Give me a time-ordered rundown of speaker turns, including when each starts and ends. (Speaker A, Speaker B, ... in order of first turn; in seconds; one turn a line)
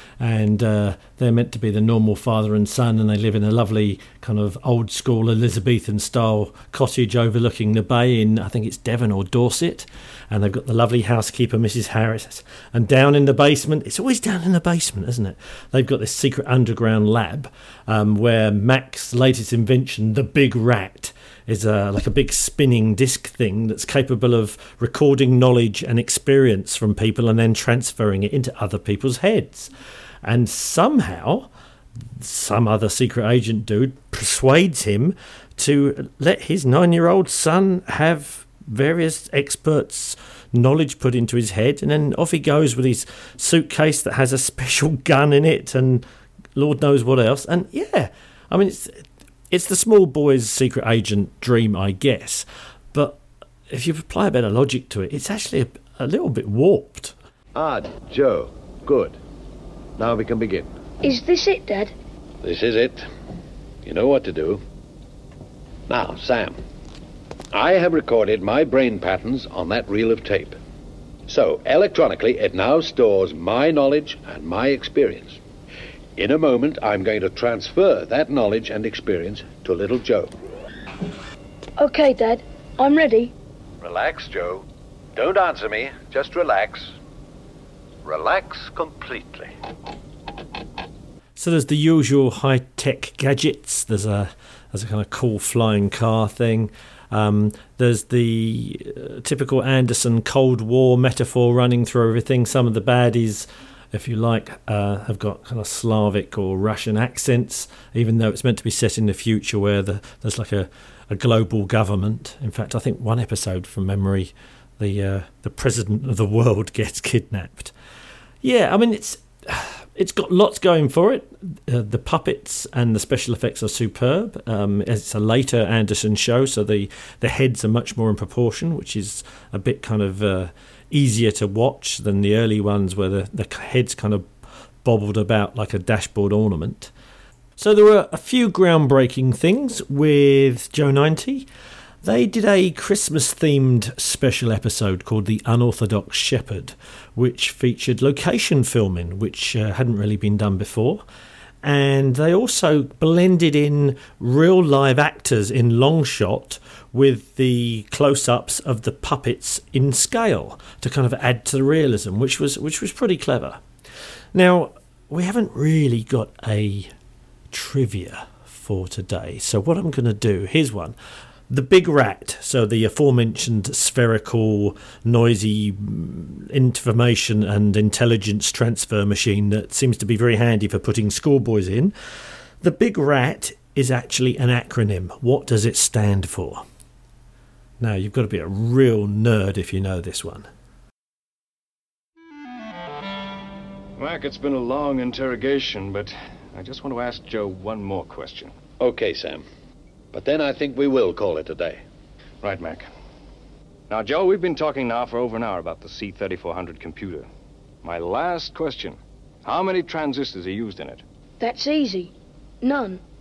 Speaker A: 0.2-29.7
Speaker A: 30.2-31.5
Speaker A: 32.2-46.0
Speaker A: 46.5-57.1
Speaker B: 57.5-59.1
Speaker B: 60.0-60.7
Speaker C: 61.0-61.9
Speaker B: 62.4-63.0
Speaker B: 63.8-64.6
Speaker B: 65.9-66.6
Speaker B: 67.5-70.6
Speaker B: 71.3-75.4
Speaker B: 76.2-80.3
Speaker C: 81.8-83.3
Speaker B: 83.8-84.6
Speaker B: 85.2-86.9
Speaker B: 88.0-89.5
Speaker A: 91.4-117.7
Speaker A: 118.4-134.3
Speaker A: 134.8-136.9
Speaker A: 137.6-141.5
Speaker A: 142.0-151.0
Speaker A: 151.6-163.6
Speaker A: 164.3-166.9
Speaker A: 167.5-170.9
Speaker A: 171.5-181.9
Speaker A: 182.6-186.6
Speaker A: 187.8-190.5
Speaker D: 194.0-198.5
Speaker B: 198.8-199.4
Speaker B: 200.1-201.8
Speaker D: 202.4-202.8
Speaker D: 203.9-207.3
Speaker D: 207.8-211.0
Speaker C: 211.4-213.0